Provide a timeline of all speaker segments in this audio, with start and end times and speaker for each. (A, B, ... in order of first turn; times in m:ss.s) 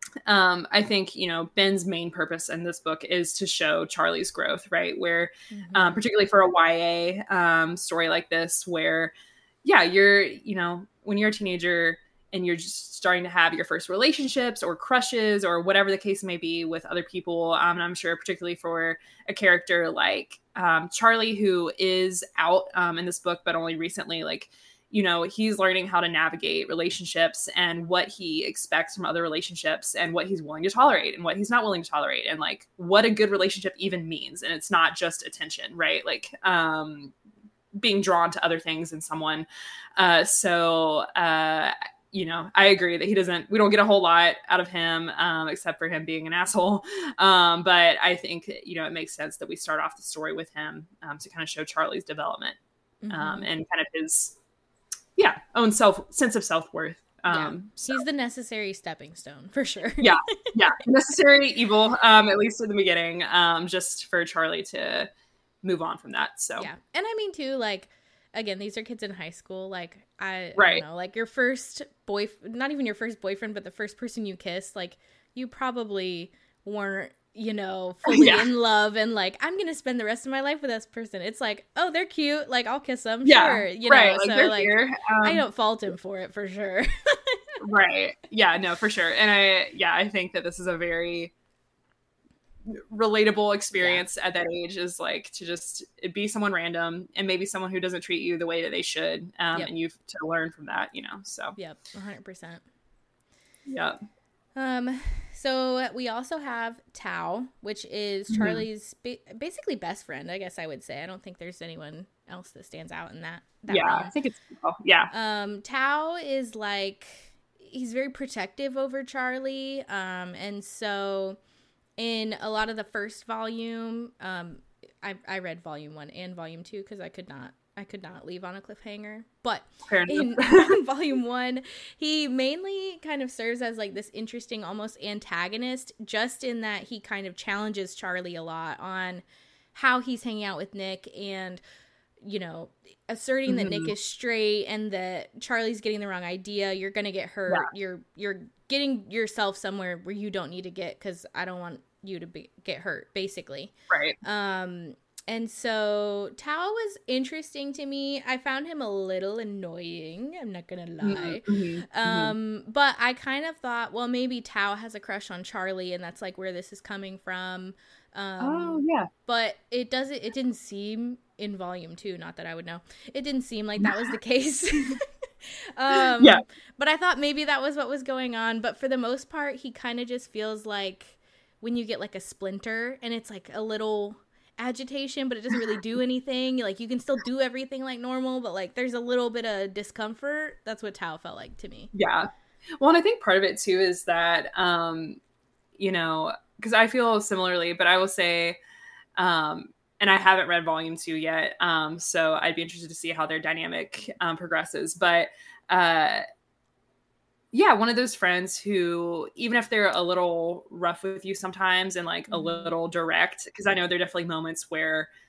0:00.3-0:09.1 A
0:05.5-0:06.0 B
0:09.6-0:37.1 A
0:37.7-0:52.6 A
0:53.0-0:53.5 B
0:53.1-0:54.4 A
0:55.2-0:58.0 A
0:57.3-1:00.6 B
1:00.0-1:05.1 A
1:05.6-1:06.7 A
1:06.6-1:27.4 B
1:10.6-1:10.8 A
1:18.1-1:18.5 A
1:23.2-1:25.4 A
1:27.6-1:31.3 A
1:32.7-1:41.6 A
1:33.7-1:34.0 B
1:41.6-1:42.6 B
1:43.7-1:44.0 A
1:44.6-1:54.1 B
1:48.3-1:48.6 A
1:53.7-1:55.1 A
1:55.1-2:01.4 B
2:02.0-2:19.2 B
2:09.9-2:10.8 A
2:19.7-2:21.6 B
2:22.2-3:11.9 B
2:23.5-2:23.9 A
2:33.9-2:34.2 A
2:41.0-2:42.3 A
2:48.4-2:49.1 A
2:55.9-2:56.4 A
3:11.9-3:12.3 A
3:12.8-3:15.2 A
3:15.8-3:18.6 A
3:19.2-3:26.2 A
3:27.5-3:35.1 A
3:32.3-3:32.7 B